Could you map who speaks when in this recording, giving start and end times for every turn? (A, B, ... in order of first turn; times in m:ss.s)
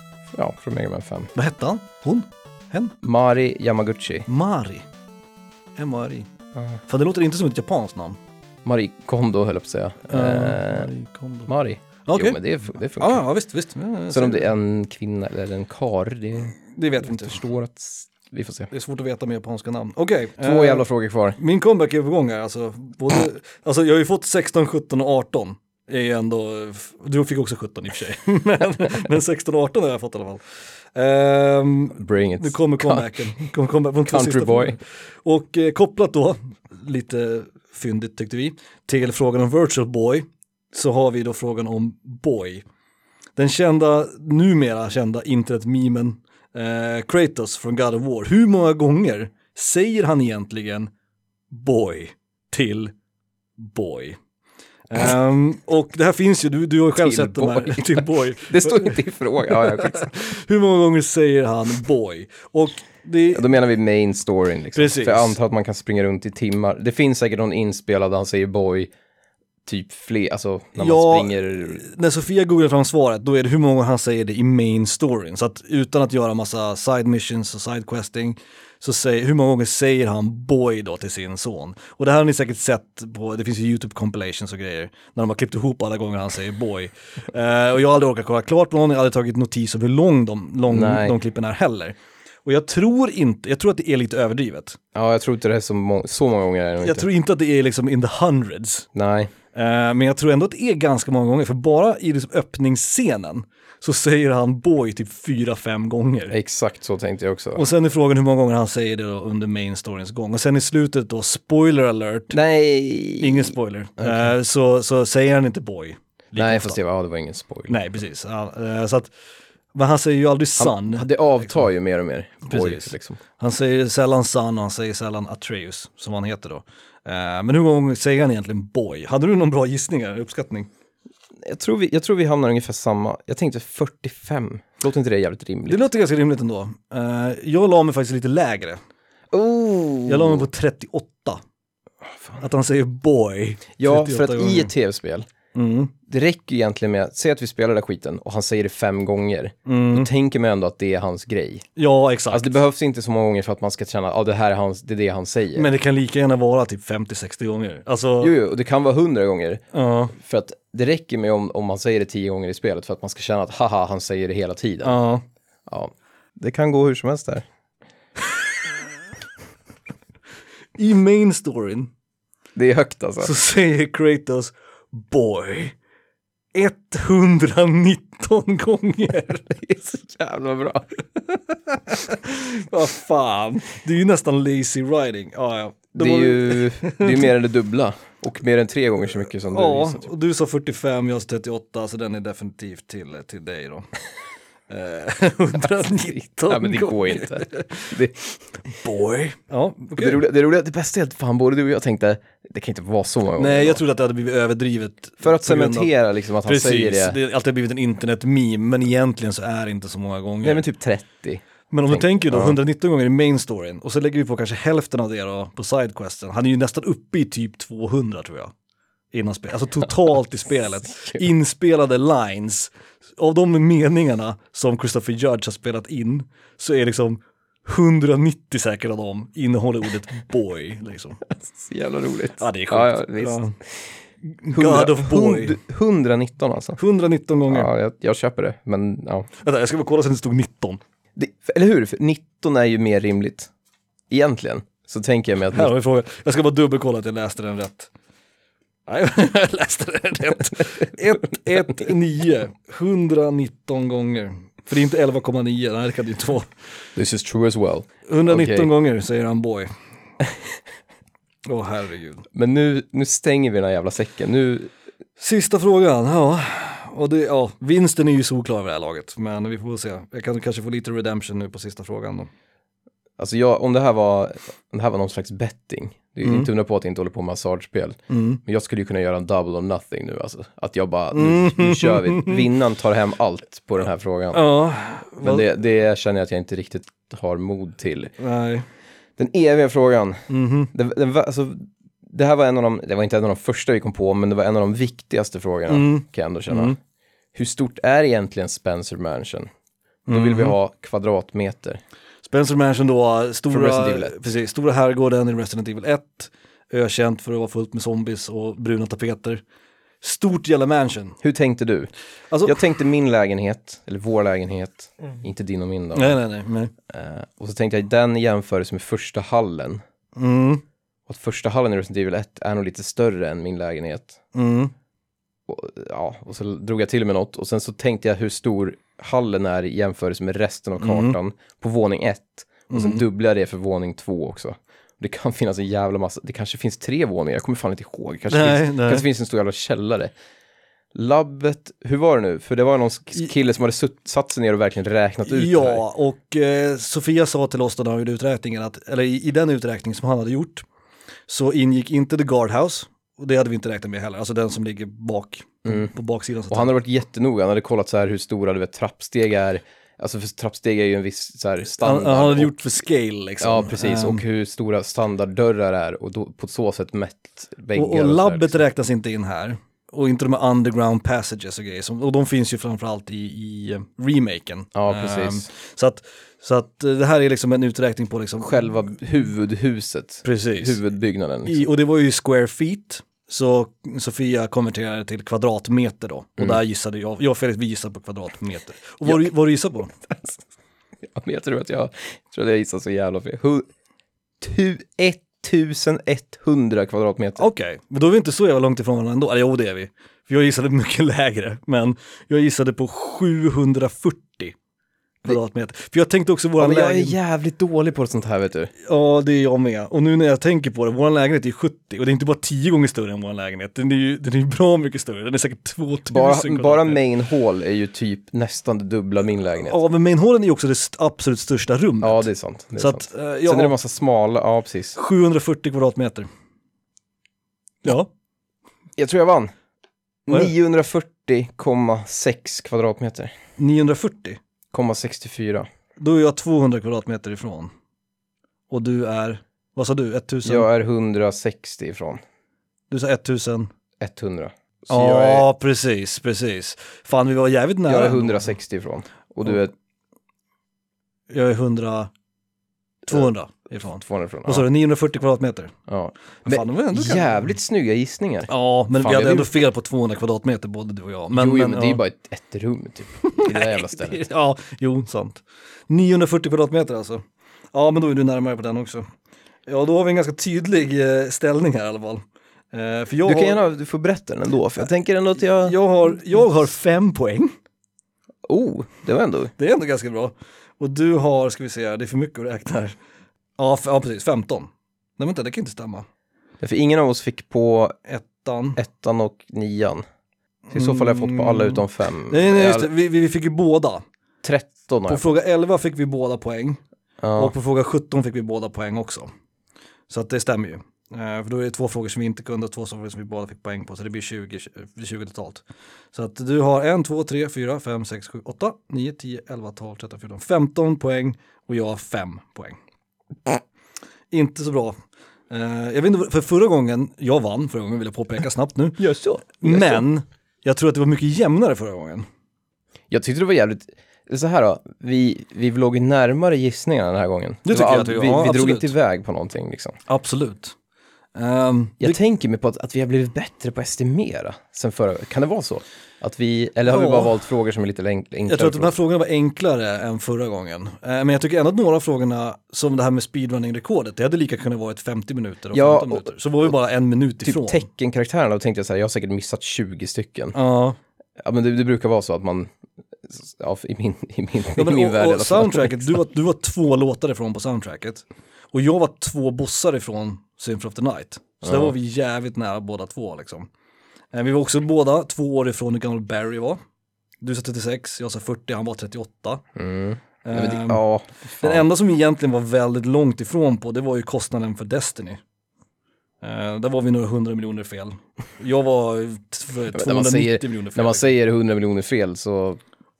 0:00.3-0:01.3 A
0:01.3-0:02.9 B
0:03.0-0:04.3 A
0:04.3-0:04.9 B
0:05.8-0:06.3 B
0:06.9-0:08.2 B
0:08.6-0:10.9 A
0:10.1-0:11.5 B
0:11.5-0:13.2 A
0:12.0-0:12.4 B
0:13.0-0:14.5 B
0:14.1-0:18.7 A
0:16.7-0:17.4 B
0:18.7-0:30.4 B
0:20.4-0:21.4 A
0:30.9-0:42.6 B
0:32.0-0:33.1 A
0:34.1-0:34.8 A
0:43.4-0:50.9 B
0:51.5-0:52.9 B
0:53.6-0:54.2 B
0:54.9-1:03.6 B
0:56.9-1:00.2 A
1:03.3-1:08.9 A
1:04.7-1:05.4 B
1:09.6-1:11.8 A
1:10.8-1:34.8 B
1:30.7-1:31.1 A
1:34.9-1:37.1 A
1:36.8-1:38.9 B
1:38.9-1:39.3 A
1:39.5-1:46.3 B
1:46.3-1:47.6 A
1:47.6-1:52.4 B
1:52.3-1:54.3 A
1:53.2-1:56.8 B
1:56.4-1:57.8 A
1:57.7-1:59.1 B
1:59.7-2:01.0 B
2:00.6-2:03.2 A
2:02.4-2:10.7 B
2:11.4-2:15.8 A
2:15.7-2:18.8 B
2:19.3-2:20.4 A
2:20.0-2:21.4 B
2:22.4-2:24.7 B
2:23.8-2:25.3 A
2:25.5-2:25.9 B
2:26.1-2:31.6 A
2:29.6-2:30.1 B
2:31.8-2:32.5 B
2:32.3-2:35.7 A
2:35.6-2:38.3 B
2:38.2-2:45.0 A
2:39.7-2:40.1 B
2:44.8-2:45.2 B
2:45.7-2:47.5 A
2:50.8-2:51.9 B
2:52.6-2:53.3 A
2:53.2-2:55.7 B
2:56.5-2:59.5 B
2:59.4-3:00.9 A
3:01.7-3:07.3 B
3:06.0-3:10.0 A
3:09.5-3:13.9 B
3:14.7-3:17.9 B
3:15.6-3:18.8 A
3:18.8-3:20.2 B
3:19.9-3:23.8 A
3:23.4-3:25.9 B
3:25.2-3:27.2 A
3:26.4-3:30.7 B
3:30.4-3:32.6 A
3:31.7-3:38.5 B
3:39.1-3:51.2 B
3:41.0-3:41.2 A
3:51.2-3:53.9 A
3:52.4-3:53.6 B
3:54.2-3:55.6 B
3:54.5-3:56.8 A
3:56.8-3:57.7 B
3:57.5-3:59.3 A
3:59.4-4:00.8 B
4:01.2-4:03.5 A
4:04.1-4:05.7 A
4:05.5-4:07.9 B
4:08.9-4:16.5 B
4:16.9-4:18.7 A
4:18.1-4:19.7 B
4:21.4-4:22.3 B
4:22.3-4:24.7 A
4:25.2-4:32.3 B
4:33.2-4:44.4 A
4:36.2-4:36.5 B
4:38.1-4:38.4 B
4:41.1-4:42.4 B
4:44.3-4:45.5 B
4:45.2-4:48.1 A
4:48.2-4:48.6 B
4:49.2-4:56.8 A
4:50.3-4:50.7 B
4:55.7-4:56.8 B
4:57.3-4:59.5 A
5:00.1-5:00.6 B
5:00.1-5:01.8 A
5:02.2-5:09.4 B
5:03.5-5:04.1 A
5:10.0-5:11.2 B
5:11.2-5:11.9 A
5:12.3-5:12.6 B
5:12.4-5:16.2 A
5:15.9-5:16.7 B
5:16.9-5:19.8 A
5:20.2-5:20.6 B
5:21.1-5:24.2 A
5:24.3-5:24.7 B
5:25.5-5:40.1 A
5:30.8-5:31.2 B
5:32.7-5:33.0 B
5:38.3-5:39.0 B
5:40.9-5:45.8 A
5:45.2-5:50.6 B
5:51.3-5:56.7 B
5:55.6-5:55.9 A
5:56.5-6:02.5 A
6:01.7-6:04.2 B
6:03.4-6:08.6 A
6:07.7-6:18.7 B
6:14.7-6:15.5 A
6:18.4-6:21.6 A
6:20.2-6:20.8 B
6:21.4-6:29.9 B
6:30.0-6:30.4 A
6:31.0-6:33.6 A
6:34.4-6:37.4 A
6:37.4-6:44.5 B
6:45.2-6:47.2 B
6:46.6-6:48.7 A
6:48.8-6:57.0 B
6:56.1-6:59.8 A
6:59.6-7:03.8 B
7:02.0-7:05.0 A
7:05.0-7:06.3 B
7:07.8-7:08.1 B
7:09.0-7:09.5 A
7:10.3-7:13.3 A
7:13.6-7:14.4 B
7:14.7-7:15.7 A
7:16.0-7:17.7 B
7:18.7-7:20.7 B
7:20.4-7:22.2 A
7:22.9-7:23.7 B
7:24.0-7:25.4 A
7:24.9-7:28.6 B
7:27.9-7:29.7 A
7:31.3-7:32.1 B
7:33.1-7:35.8 B
7:33.9-7:34.7 A
7:35.9-7:39.5 A
7:36.4-7:37.4 B
7:38.5-7:42.0 B
7:41.3-7:44.2 A
7:43.2-7:49.1 B
7:49.7-7:53.6 B
7:53.2-7:55.8 A
7:55.6-7:57.5 B
7:58.4-7:59.5 A
7:59.6-8:03.0 B
8:03.6-8:06.0 B
8:06.6-8:08.0 A
8:08.0-8:08.8 B
8:08.8-8:10.0 A
8:10.7-8:14.0 B
8:10.7-8:12.9 A
8:14.4-8:15.2 A
8:15.1-8:16.8 B
8:17.2-8:17.5 A
8:17.4-8:19.3 B
8:20.1-8:32.8 B
8:34.3-8:35.0 B
8:35.5-8:42.2 B
8:39.0-8:40.0 A
8:43.1-8:50.0 A
8:47.6-8:48.9 B
8:50.1-8:50.7 B
8:51.4-8:52.2 B
8:52.0-8:58.9 A
8:56.9-8:57.3 B
8:58.4-9:07.8 B
9:05.7-9:06.3 A
9:07.4-9:10.6 A
9:10.5-9:11.0 B
9:11.4-9:16.2 A
9:14.7-9:23.7 B
9:21.6-9:21.9 A
9:24.3-9:26.8 B
9:27.4-9:29.6 B
9:29.8-9:31.8 A
9:30.4-9:31.0 B
9:31.6-9:35.4 B
9:36.4-9:41.3 B
9:39.9-9:42.8 A